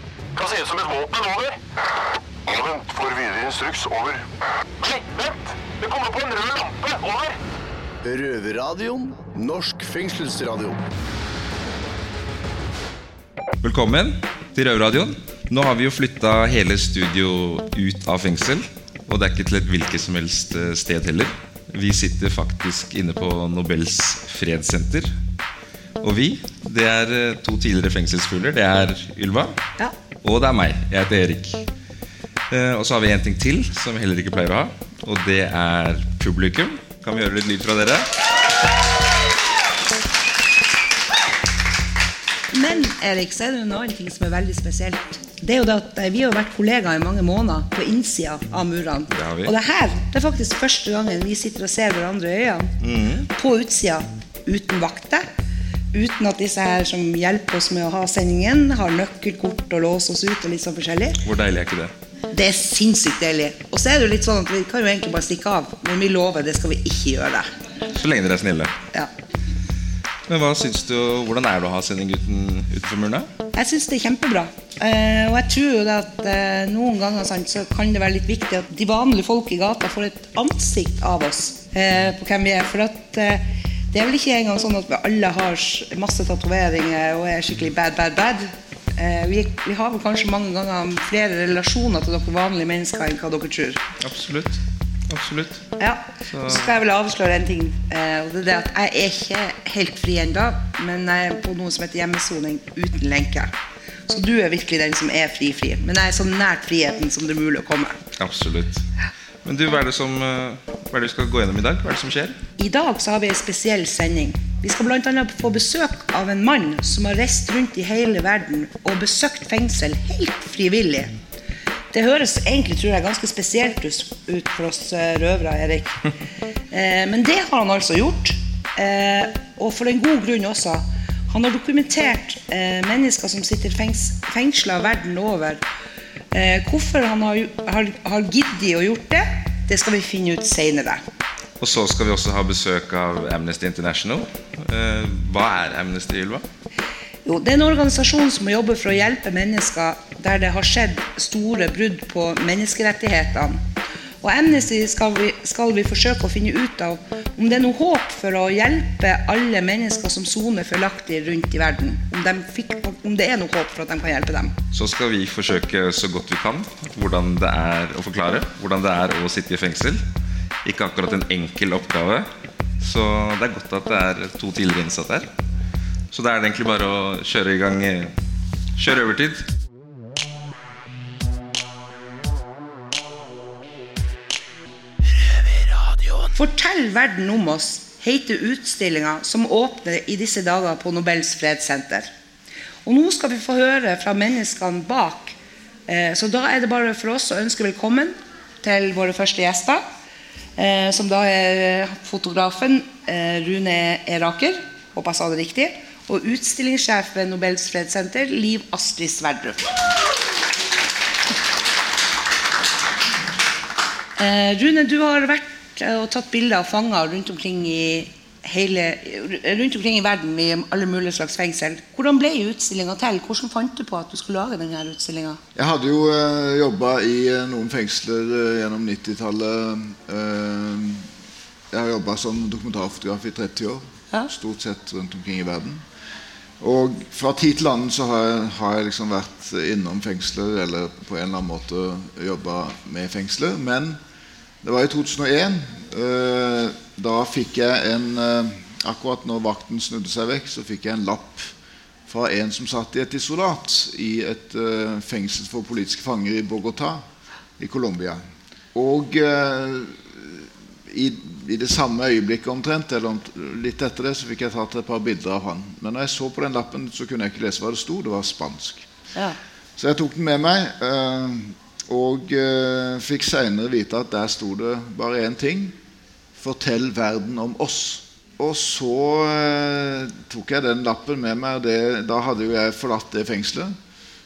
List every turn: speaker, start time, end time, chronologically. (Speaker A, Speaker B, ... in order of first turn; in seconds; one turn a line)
Speaker A: 0.3-1.6
Speaker A: 2.5-4.2
Speaker A: 4.8-7.3
Speaker B: 8.0-10.8
Speaker C: 13.6-25.1
Speaker C: 26.0-29.6
Speaker C: 30.2-31.6
Speaker C: 32.5-38.1
Speaker D: 42.5-52.7
Speaker C: 49.1-49.5
Speaker C: 52.8-53.2
Speaker D: 53.3-55.2
Speaker D: 55.9-61.2
Speaker C: 61.2-61.9
Speaker D: 62.3-67.5
Speaker C: 67.9-68.7
Speaker C: 70.3-73.3
Speaker D: 73.5-93.8
Speaker C: 94.0-95.6
Speaker D: 95.8-103.5
Speaker C: 96.3-96.6
Speaker D: 104.1-108.0
Speaker C: 108.2-108.8
Speaker C: 109.4-112.4
Speaker D: 112.6-121.1
Speaker D: 121.9-126.0
Speaker D: 126.7-135.6
Speaker D: 136.3-141.0
Speaker C: 141.6-146.4
Speaker D: 147.2-153.6
Speaker D: 154.2-164.5
Speaker C: 164.7-170.0
Speaker C: 170.6-172.3
Speaker C: 172.8-175.3
Speaker C: 176.1-178.1
Speaker C: 178.8-179.4
Speaker D: 186.3-192.1
Speaker D: 192.8-195.3
Speaker D: 195.9-199.8
Speaker D: 200.6-209.6
Speaker D: 214.2-225.4
Speaker E: 225.5-231.1
Speaker E: 231.7-235.8
Speaker E: 236.6-244.0
Speaker E: 244.6-251.5
Speaker E: 252.1-257.0
Speaker E: 257.6-258.2
Speaker E: 258.7-268.9
Speaker E: 269.8-275.8
Speaker E: 276.4-283.8